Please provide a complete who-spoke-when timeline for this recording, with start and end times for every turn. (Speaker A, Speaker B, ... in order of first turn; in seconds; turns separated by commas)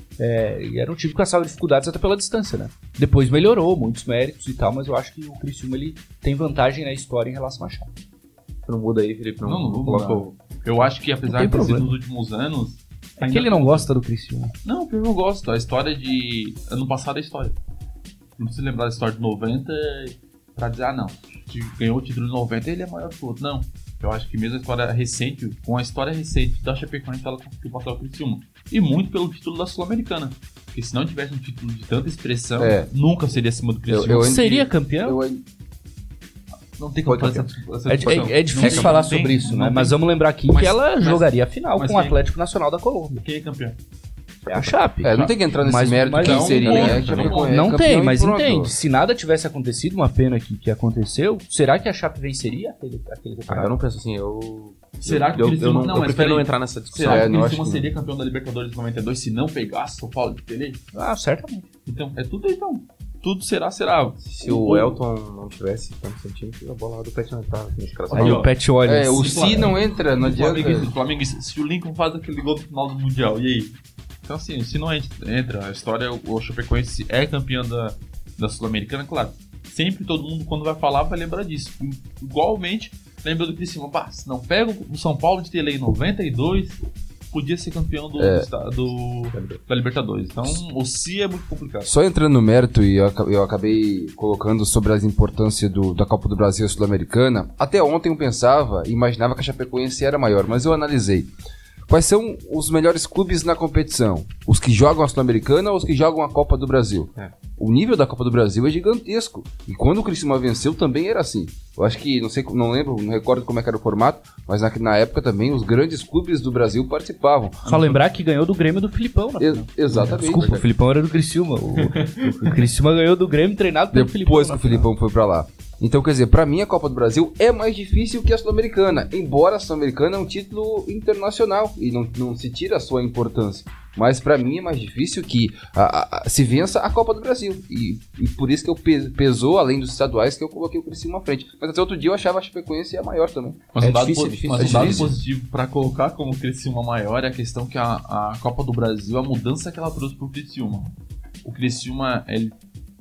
Speaker A: 0.2-7.9, Speaker B: 8.7-10.3, Speaker C: 9.4-13.9, Speaker A: 11.3-11.9, Speaker A: 13.2-14.5, Speaker C: 14.6-17.6, Speaker C: 18.4-34.7, Speaker D: 32.6-32.9, Speaker B: 33.9-34.2, Speaker D: 33.9-34.5, Speaker A: 34.1-35.2, Speaker D: 35.0-35.4, Speaker C: 36.8-40.0, Speaker B: 37.0-38.9, Speaker A: 37.9-43.2, Speaker C: 40.5-42.2, Speaker C: 43.2-43.8, Speaker A: 44.5-46.7, Speaker D: 45.0-48.7, Speaker C: 45.1-45.3, Speaker C: 46.1-47.7, Speaker B: 46.6-47.4, Speaker A: 47.5-53.7, Speaker B: 53.5-57.4, Speaker C: 55.0-60.8, Speaker D: 57.0-57.9, Speaker A: 60.9-61.7, Speaker C: 61.9-65.0, Speaker B: 64.2-68.4, Speaker C: 68.0-68.5, Speaker A: 68.1-69.7, Speaker D: 68.8-70.9, Speaker C: 69.1-86.8, Speaker C: 87.3-91.9, Speaker D: 88.2-88.5, Speaker B: 89.3-89.6, Speaker D: 91.8-101.3, Speaker D: 101.9-117.6, Speaker C: 117.6-118.0, Speaker A: 117.6-124.9, Speaker D: 119.4-120.6, Speaker B: 120.3-120.6, Speaker C: 121.8-122.6, Speaker D: 123.9-143.6, Speaker C: 143.8-150.9, Speaker B: 143.8-145.1, Speaker D: 144.5-145.1, Speaker C: 151.4-152.5